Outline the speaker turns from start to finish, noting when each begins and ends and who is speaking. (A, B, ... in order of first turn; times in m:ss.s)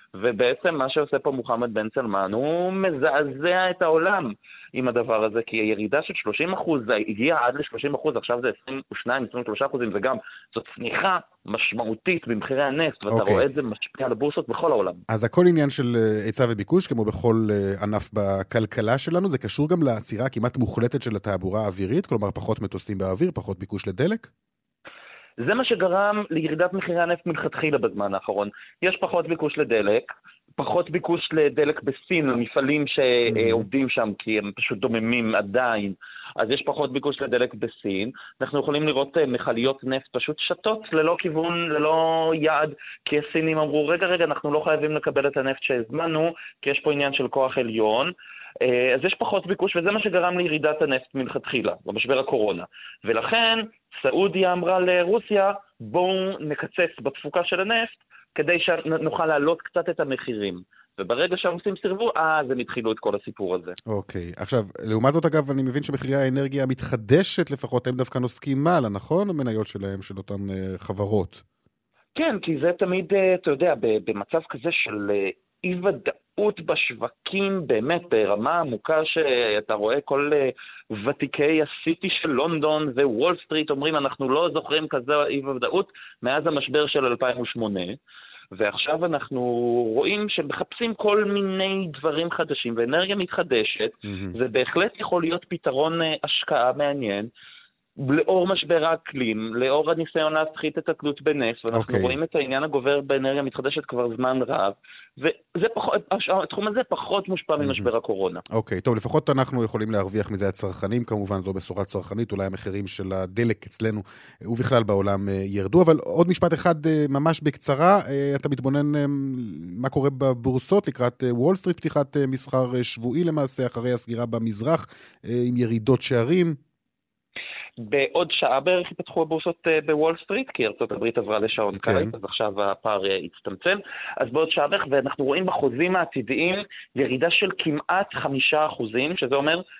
0:00.2-0:15.0 A
0:13.1-0:13.4 B
0:15.1-0:24.3 B
0:25.4-0:48.1 A
0:33.3-0:33.6 B
0:48.6-1:03.8 A
1:03.9-1:11.4 B
1:12.2-1:28.0 A
1:28.5-1:37.3 A
1:34.0-1:34.3 B
1:38.0-1:48.4 A
1:41.7-1:42.2 B
1:47.6-1:47.9 B
1:48.5-2:06.6 B
2:07.8-2:19.6 A
2:11.8-2:12.1 B